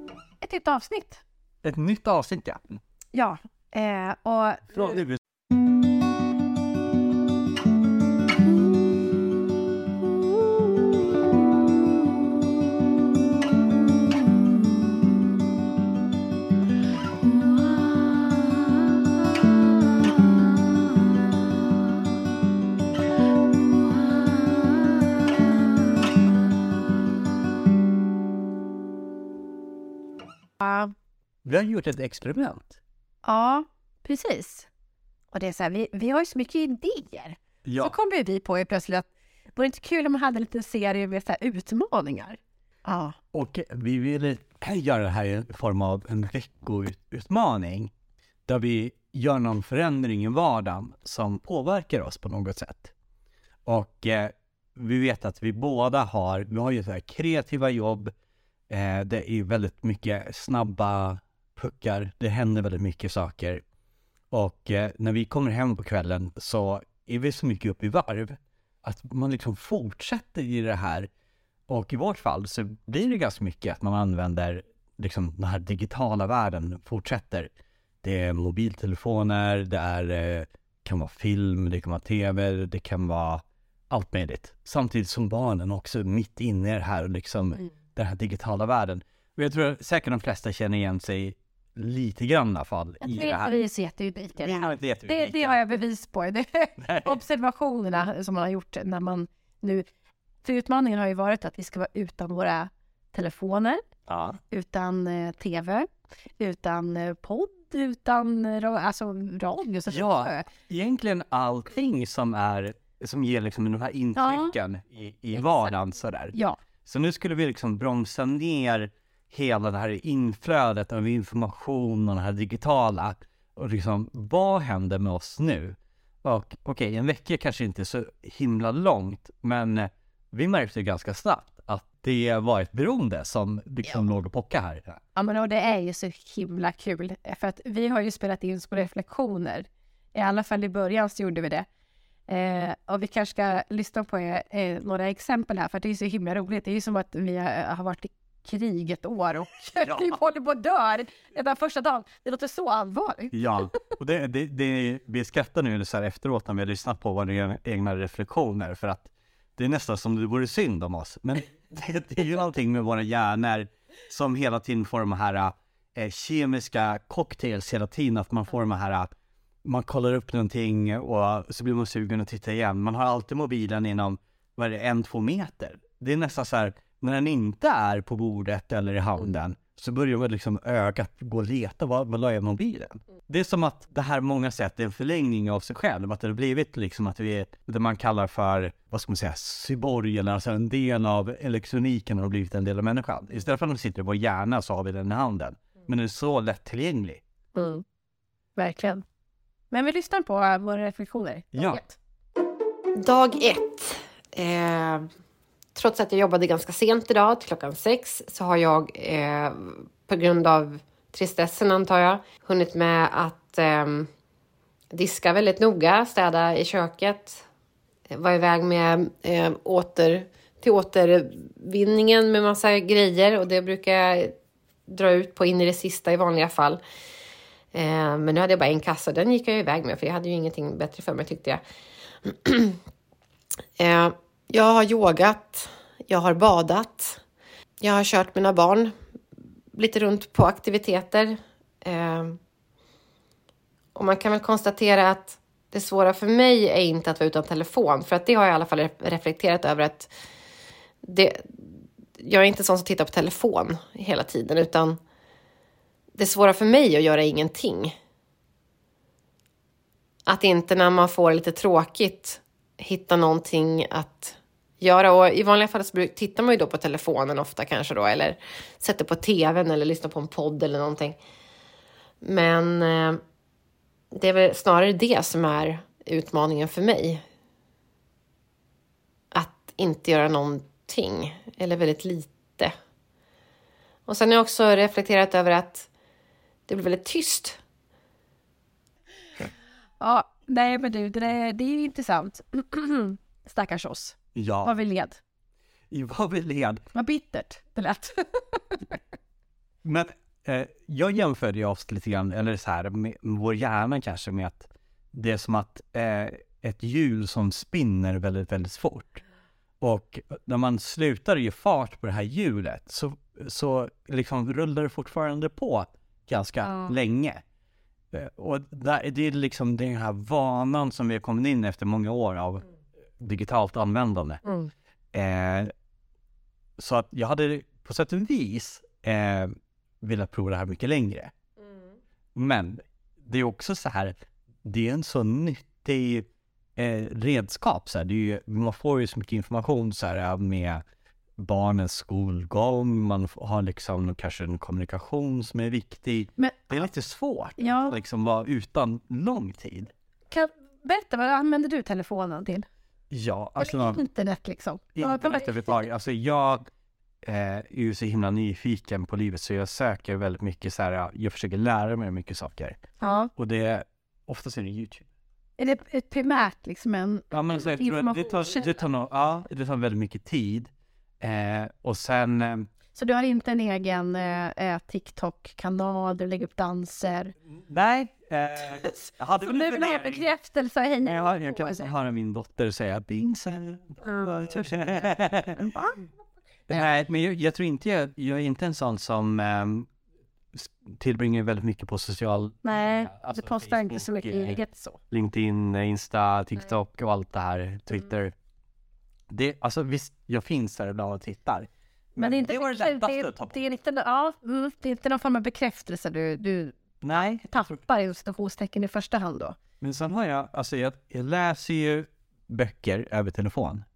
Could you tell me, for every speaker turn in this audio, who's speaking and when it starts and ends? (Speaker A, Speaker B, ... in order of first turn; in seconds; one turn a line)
Speaker A: 0.4-1.2
Speaker B: 1.6-2.8
Speaker A: 3.1-5.0
Speaker B: 4.7-5.2
Speaker A: 30.6-30.9
Speaker B: 31.4-32.8
Speaker A: 33.2-34.7
Speaker A: 35.3-43.1
Speaker B: 37.6-37.9
Speaker B: 43.3-47.9
Speaker B: 48.5-52.9
Speaker B: 53.6-58.1
Speaker B: 58.7-63.6
Speaker B: 64.3-71.1
Speaker B: 71.7-77.5
Speaker B: 78.0-93.5
Speaker A: 93.0-99.8
Speaker B: 94.4-95.5
Speaker B: 96.8-97.2
Speaker A: 100.4-103.8
Speaker B: 104.1-104.4
Speaker A: 104.5-105.9
Speaker A: 106.4-110.5
Speaker B: 109.9-135.0
Speaker A: 114.2-114.5
Speaker A: 116.3-116.6
Speaker A: 135.1-141.7
Speaker A: 142.3-153.8
Speaker B: 149.8-150.1
Speaker B: 153.3-169.1
Speaker B: 169.6-197.2
Speaker A: 197.5-197.8
Speaker A: 198.6-199.0
Speaker A: 199.7-202.0
Speaker B: 201.5-201.8
Speaker C: 202.9-205.1
Speaker C: 205.7-214.1
Speaker C: 214.9-217.4
Speaker C: 218.1-226.8
Speaker C: 227.7-231.6
Speaker C: 232.2-232.8
Speaker C: 233.8-237.2
Speaker C: 237.8-238.9
Speaker C: 239.7-242.4
Speaker C: 243.9-250.1
Speaker C: 251.0-255.0
Speaker C: 256.1-257.9
Speaker C: 260.3-271.2
Speaker C: 272.2-273.2
Speaker C: 274.1-277.2
Speaker C: 279.3-282.7
Speaker C: 284.1-285.9
Speaker C: 286.7-287.6
Speaker A: 290.0-295.2
Speaker B: 294.3-294.7
Speaker B: 295.9-296.8
Speaker A: 296.9-299.0
Speaker B: 299.8-309.2
Speaker B: 309.8-317.4
Speaker A: 316.6-316.9
Speaker B: 318.1-322.6
Speaker B: 323.2-324.4
Speaker B: 325.1-325.7
Speaker B: 326.8-331.3
Speaker B: 332.3-340.8
Speaker B: 341.4-349.9
Speaker A: 347.6-347.9
Speaker A: 350.3-352.7
Speaker B: 353.1-354.0
Speaker A: 353.6-355.8
Speaker B: 354.9-356.6
Speaker B: 357.2-365.1
Speaker A: 363.0-363.3
Speaker A: 365.6-368.7
Speaker B: 367.3-372.7
Speaker A: 372.9-377.3
Speaker B: 377.6-380.3
Speaker A: 378.8-381.9
Speaker B: 381.0-385.8
Speaker A: 385.8-386.0
Speaker B: 386.7-389.9
Speaker B: 390.5-394.6
Speaker A: 392.6-395.0
Speaker B: 395.1-398.3
Speaker B: 399.3-403.6
Speaker A: 402.2-406.8
Speaker B: 407.0-407.8
Speaker A: 407.5-409.6
Speaker B: 409.8-413.8